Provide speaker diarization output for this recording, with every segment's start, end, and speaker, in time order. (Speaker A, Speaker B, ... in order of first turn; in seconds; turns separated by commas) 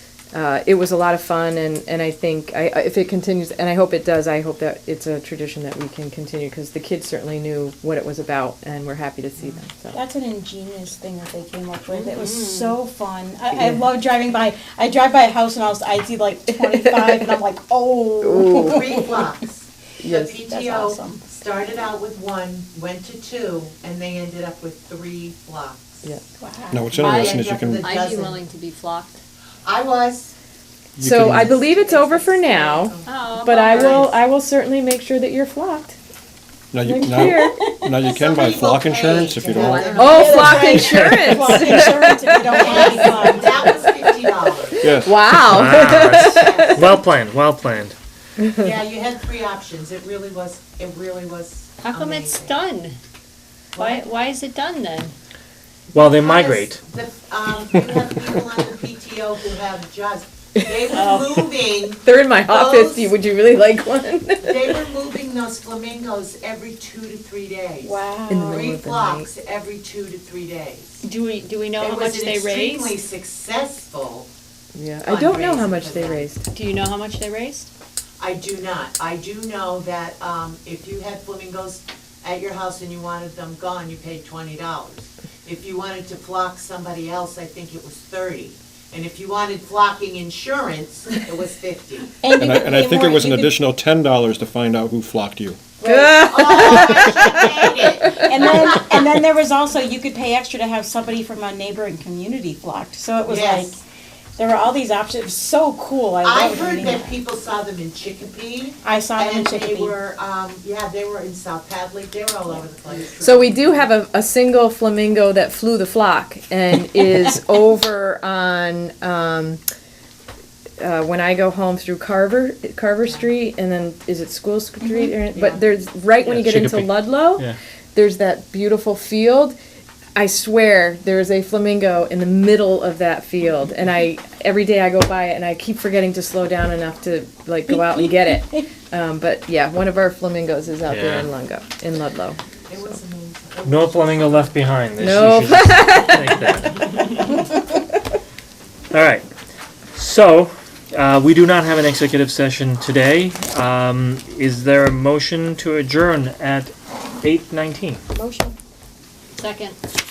Speaker A: 0.3-10.0, Speaker B: 9.9-19.1, Speaker C: 11.9-12.8, Speaker A: 13.6-13.9, Speaker A: 16.7-17.1, Speaker A: 18.2-18.9, Speaker D: 18.6-26.1, Speaker A: 20.0-20.4, Speaker B: 20.4-21.2, Speaker B: 26.4-27.0, Speaker E: 26.7-27.9, Speaker C: 26.9-29.2, Speaker D: 27.0-28.4, Speaker D: 29.6-30.3, Speaker E: 31.0-31.6, Speaker A: 31.0-36.0, Speaker D: 31.3-34.2, Speaker C: 33.1-34.1, Speaker E: 36.7-40.0, Speaker A: 36.8-37.7, Speaker B: 37.2-37.9, Speaker D: 38.0-41.6, Speaker C: 39.5-40.7, Speaker A: 40.0-43.4, Speaker B: 40.0-43.6, Speaker F: 40.9-41.9, Speaker D: 42.5-44.9, Speaker E: 44.8-45.2, Speaker A: 45.0-46.9, Speaker F: 45.4-48.0, Speaker D: 45.8-47.0, Speaker A: 48.4-48.7, Speaker D: 48.6-52.7, Speaker C: 51.8-53.0, Speaker D: 53.8-54.1, Speaker C: 53.8-55.1, Speaker F: 55.9-56.8, Speaker D: 55.9-63.2, Speaker C: 60.9-61.4, Speaker A: 62.0-64.8, Speaker D: 64.4-71.0, Speaker B: 67.8-68.7, Speaker A: 68.3-69.3, Speaker C: 71.0-73.0, Speaker D: 71.8-74.3, Speaker A: 74.7-76.4, Speaker D: 75.0-76.3, Speaker C: 76.5-77.7, Speaker D: 78.2-92.1, Speaker B: 92.2-93.5, Speaker E: 92.4-95.6, Speaker D: 95.8-98.8, Speaker A: 95.8-98.3, Speaker B: 96.1-97.3, Speaker B: 98.2-103.8, Speaker D: 103.3-103.8, Speaker B: 104.4-107.2, Speaker D: 106.2-113.7, Speaker B: 108.8-110.0, Speaker A: 113.2-119.6, Speaker A: 120.8-129.6, Speaker B: 124.8-125.2, Speaker D: 125.3-125.6, Speaker F: 126.2-127.6, Speaker A: 130.2-142.9, Speaker B: 137.7-138.7, Speaker F: 140.9-141.3, Speaker D: 142.7-144.6, Speaker F: 143.6-146.8, Speaker A: 145.0-146.8, Speaker F: 148.9-149.3, Speaker F: 149.9-158.0, Speaker B: 158.1-158.6, Speaker C: 159.4-159.8